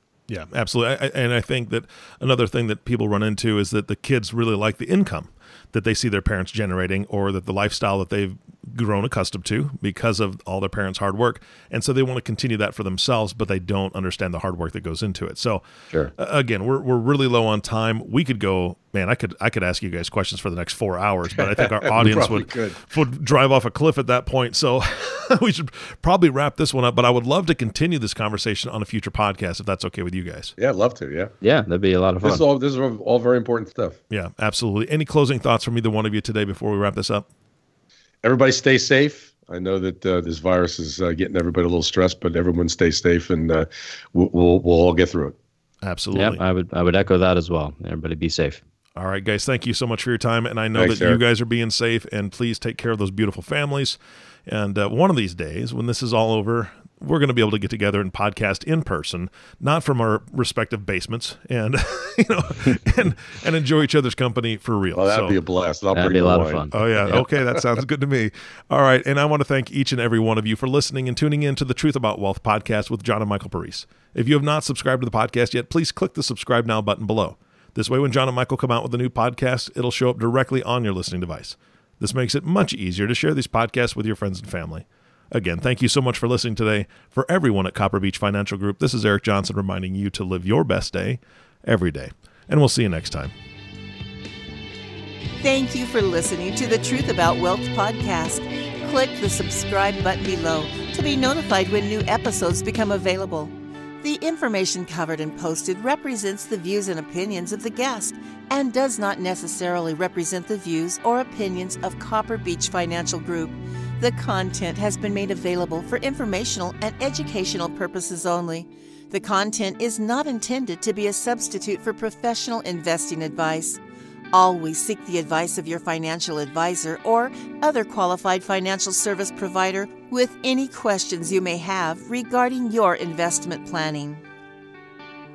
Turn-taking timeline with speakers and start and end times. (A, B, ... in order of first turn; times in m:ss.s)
0:00.3-0:15.6 A
0:16.2-0:30.5 A
0:21.4-0:22.8 B
0:30.6-0:31.3 B
0:31.4-0:32.4 C
0:32.2-0:34.0 B
0:34.1-0:37.2 A
0:38.2-0:45.3 B
0:45.8-0:46.4 A
0:46.1-0:48.6 C
0:49.0-1:05.3 A
0:50.7-0:51.2 B
1:04.9-1:06.7 B
1:05.9-1:07.2 C
1:06.7-1:33.3 A
1:35.4-2:03.8 D
2:04.3-2:14.2 D